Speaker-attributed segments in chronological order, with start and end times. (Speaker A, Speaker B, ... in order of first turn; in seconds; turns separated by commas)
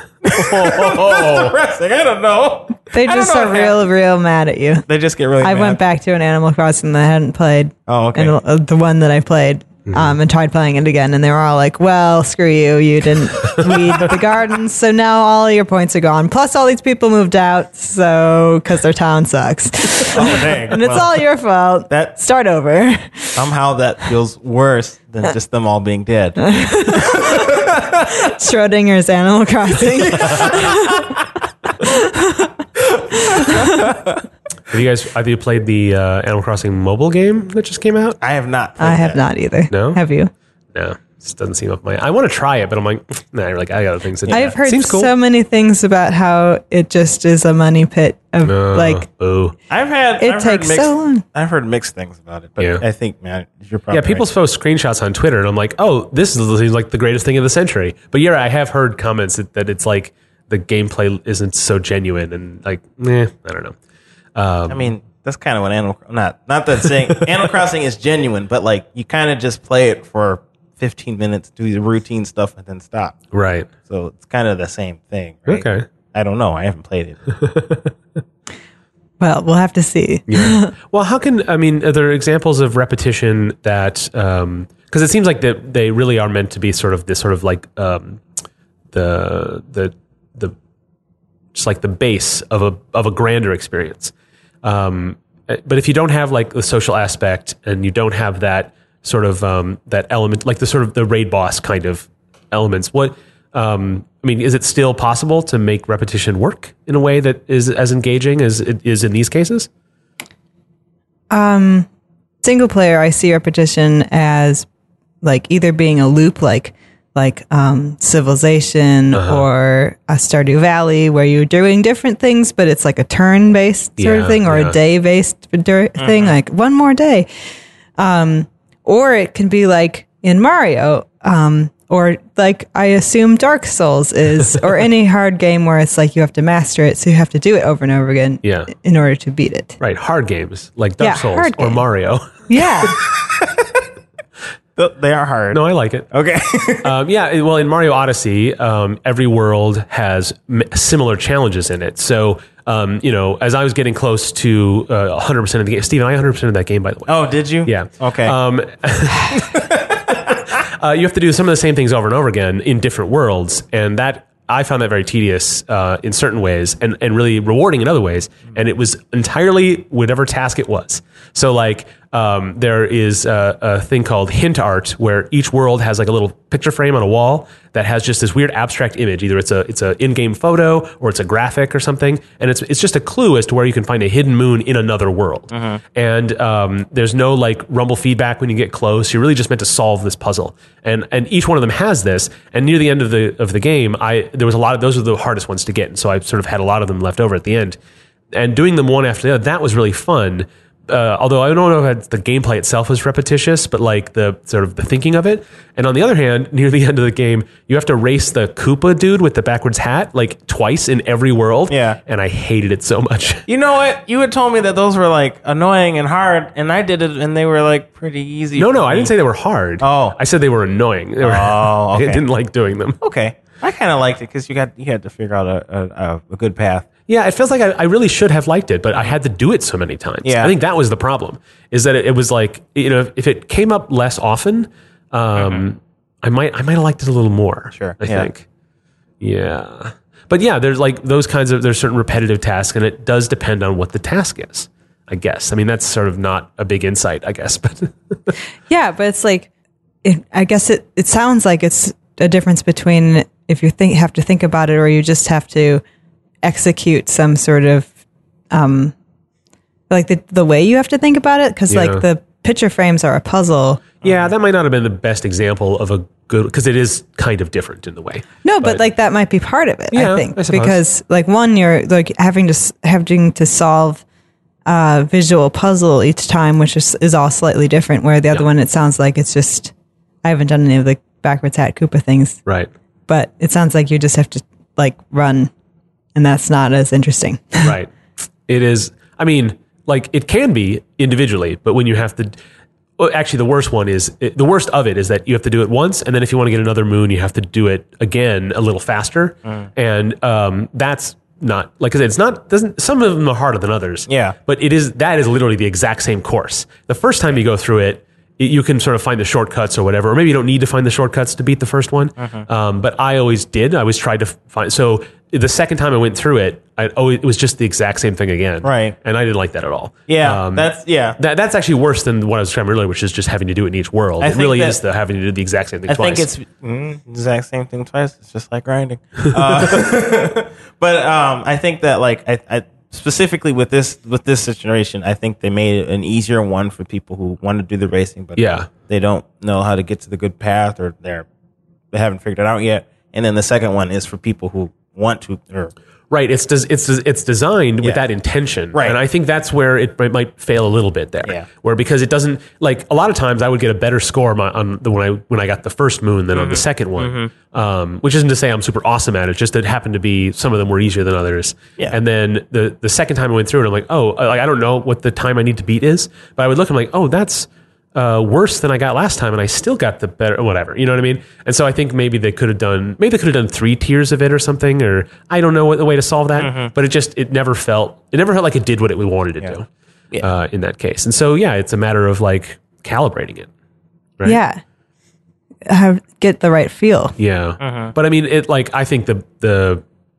Speaker A: 0.2-3.8, Speaker B: 0.3-1.6, Speaker C: 2.9-4.9, Speaker A: 4.9-5.8, Speaker C: 5.4-23.4, Speaker A: 7.9-8.4, Speaker B: 9.9-10.2, Speaker A: 20.1-21.2, Speaker A: 23.3-28.1, Speaker C: 26.4-27.6, Speaker C: 28.1-31.1, Speaker A: 30.1-31.0, Speaker C: 31.8-32.5, Speaker A: 33.0-34.2, Speaker C: 33.1-33.9, Speaker B: 34.7-38.2, Speaker A: 38.2-39.2, Speaker C: 38.8-40.3, Speaker B: 39.7-40.0, Speaker B: 40.7-45.1, Speaker A: 44.3-44.5, Speaker C: 44.3-49.0, Speaker B: 48.4-49.5, Speaker A: 49.7-54.3, Speaker C: 50.2-51.2, Speaker B: 53.9-63.8, Speaker B: 64.3-64.9, Speaker A: 64.7-73.2, Speaker B: 73.3-73.7, Speaker A: 73.8-77.2, Speaker B: 75.5-75.9, Speaker B: 77.3-77.9, Speaker C: 79.2-80.7, Speaker B: 80.3-88.2, Speaker B: 88.9-90.5, Speaker B: 91.5-109.7, Speaker C: 111.3-111.9, Speaker C: 112.4-114.7, Speaker C: 115.2-127.3, Speaker B: 119.1-119.4, Speaker B: 124.0-124.8, Speaker A: 126.0-126.4, Speaker C: 128.0-139.8, Speaker B: 138.4-138.7, Speaker B: 139.8-142.4, Speaker C: 141.0-141.8, Speaker C: 142.5-143.0, Speaker A: 142.9-143.8, Speaker A: 144.8-146.9, Speaker B: 145.5-146.1, Speaker B: 146.8-157.1, Speaker A: 157.1-158.3, Speaker B: 157.6-159.6, Speaker A: 159.5-160.4, Speaker B: 160.3-197.8, Speaker A: 185.5-185.8, Speaker B: 198.3-213.4, Speaker A: 211.7-212.0, Speaker A: 213.5-219.1, Speaker B: 218.6-223.0, Speaker A: 219.8-220.2, Speaker A: 221.2-222.2, Speaker A: 223.0-226.9, Speaker B: 227.1-238.4, Speaker A: 230.2-230.5, Speaker A: 235.4-235.6, Speaker A: 237.7-238.3, Speaker B: 239.2-248.3, Speaker C: 248.7-249.5, Speaker C: 250.0-255.8, Speaker C: 256.4-257.9, Speaker C: 258.5-258.9, Speaker C: 259.9-263.9, Speaker B: 261.7-262.0, Speaker A: 264.0-264.3, Speaker B: 264.0-268.8, Speaker C: 268.4-274.0, Speaker B: 269.9-270.8, Speaker C: 274.6-279.7, Speaker C: 280.2-282.4, Speaker C: 283.1-285.5, Speaker C: 286.1-287.8, Speaker B: 287.6-287.9, Speaker B: 288.5-292.3, Speaker B: 293.0-326.3, Speaker A: 304.1-304.4, Speaker A: 312.2-312.4, Speaker A: 318.6-318.9, Speaker A: 320.1-321.2, Speaker A: 324.2-324.8, Speaker A: 325.9-341.3, Speaker B: 329.3-329.8, Speaker B: 338.4-338.7, Speaker A: 341.9-345.7, Speaker B: 346.1-379.7, Speaker A: 348.7-349.0, Speaker A: 356.3-357.3, Speaker A: 376.4-376.7, Speaker B: 380.2-383.5, Speaker C: 384.2-384.6, Speaker C: 385.6-387.1, Speaker B: 387.2-389.8, Speaker A: 387.6-387.9